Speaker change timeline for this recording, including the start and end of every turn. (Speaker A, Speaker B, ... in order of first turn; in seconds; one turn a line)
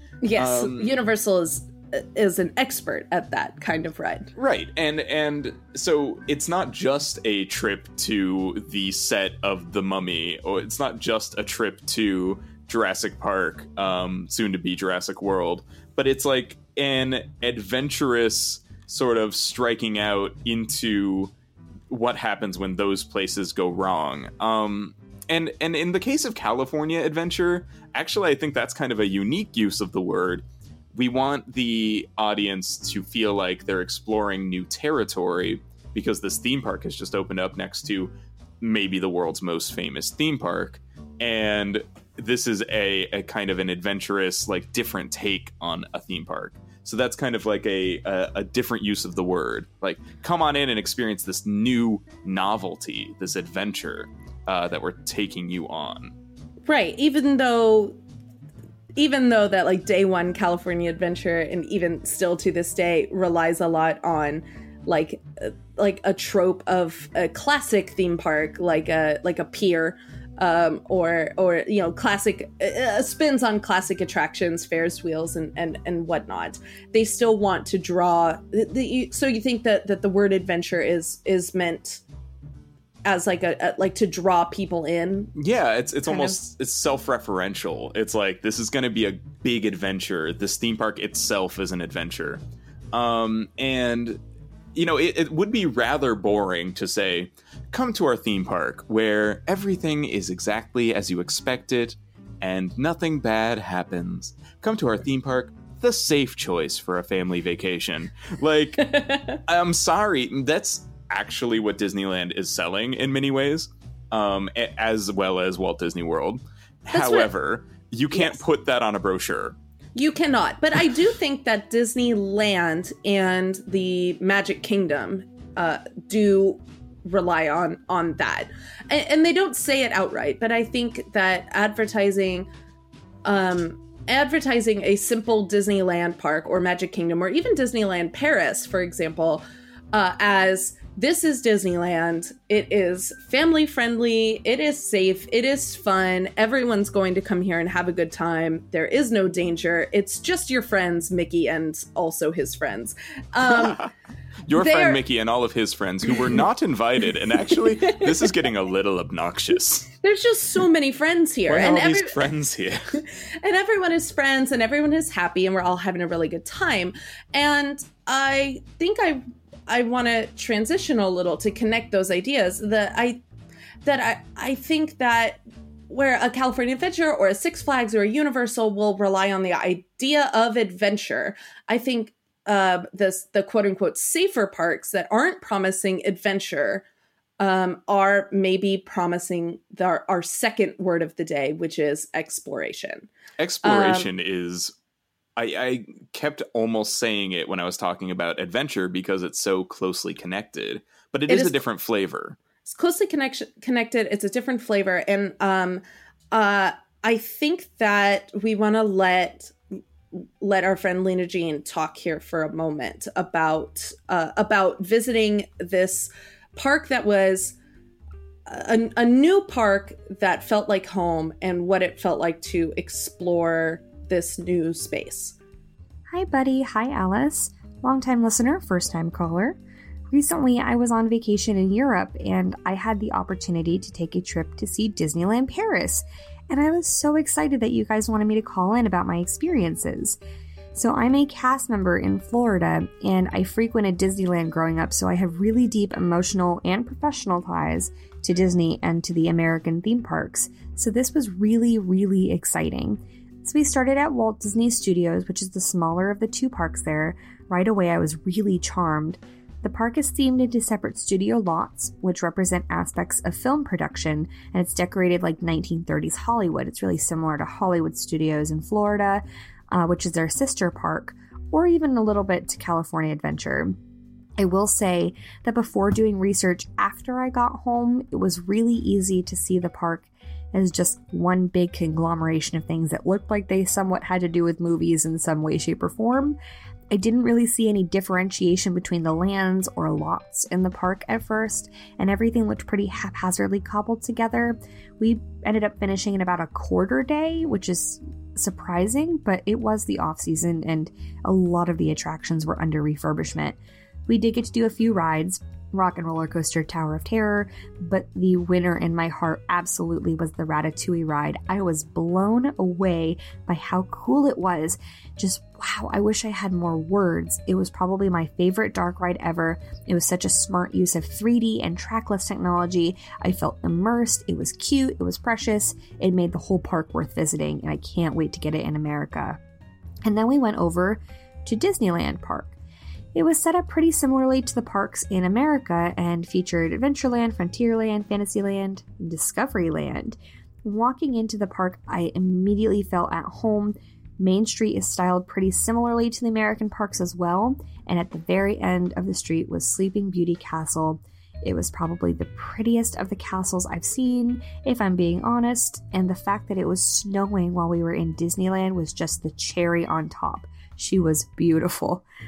Speaker A: 0.2-4.3
Speaker B: 0.3-0.9
Speaker B: 4.3-21.3
Speaker B: 21.9-56.1
Speaker A: 56.7-58.0
Speaker A: 59.0-82.0
Speaker A: 83.0-85.3
Speaker B: 85.3-92.4
Speaker A: 86.1-86.4
Speaker B: 92.9-94.2
Speaker B: 94.7-119.5
Speaker A: 109.0-109.4
Speaker A: 116.9-117.3
Speaker A: 118.1-118.4
Speaker A: 120.0-132.5
Speaker A: 133.2-153.9
Speaker B: 153.5-153.9
Speaker B: 154.5-159.9
Speaker A: 154.5-155.0
Speaker A: 157.5-158.3
Speaker A: 160.0-162.2
Speaker B: 161.5-163.0
Speaker A: 163.4-173.2
Speaker A: 173.8-186.8
Speaker A: 187.4-193.1
Speaker B: 193.4-194.7
Speaker A: 193.6-194.1
Speaker B: 195.4-202.4
Speaker A: 201.3-201.6
Speaker A: 202.6-209.5
Speaker A: 210.1-217.6
Speaker A: 218.5-225.3
Speaker C: 226.1-229.6
Speaker C: 230.1-240.2
Speaker C: 240.7-273.8
Speaker C: 274.4-286.4
Speaker C: 286.9-329.4
Speaker C: 330.0-332.6
Speaker C: 333.1-362.0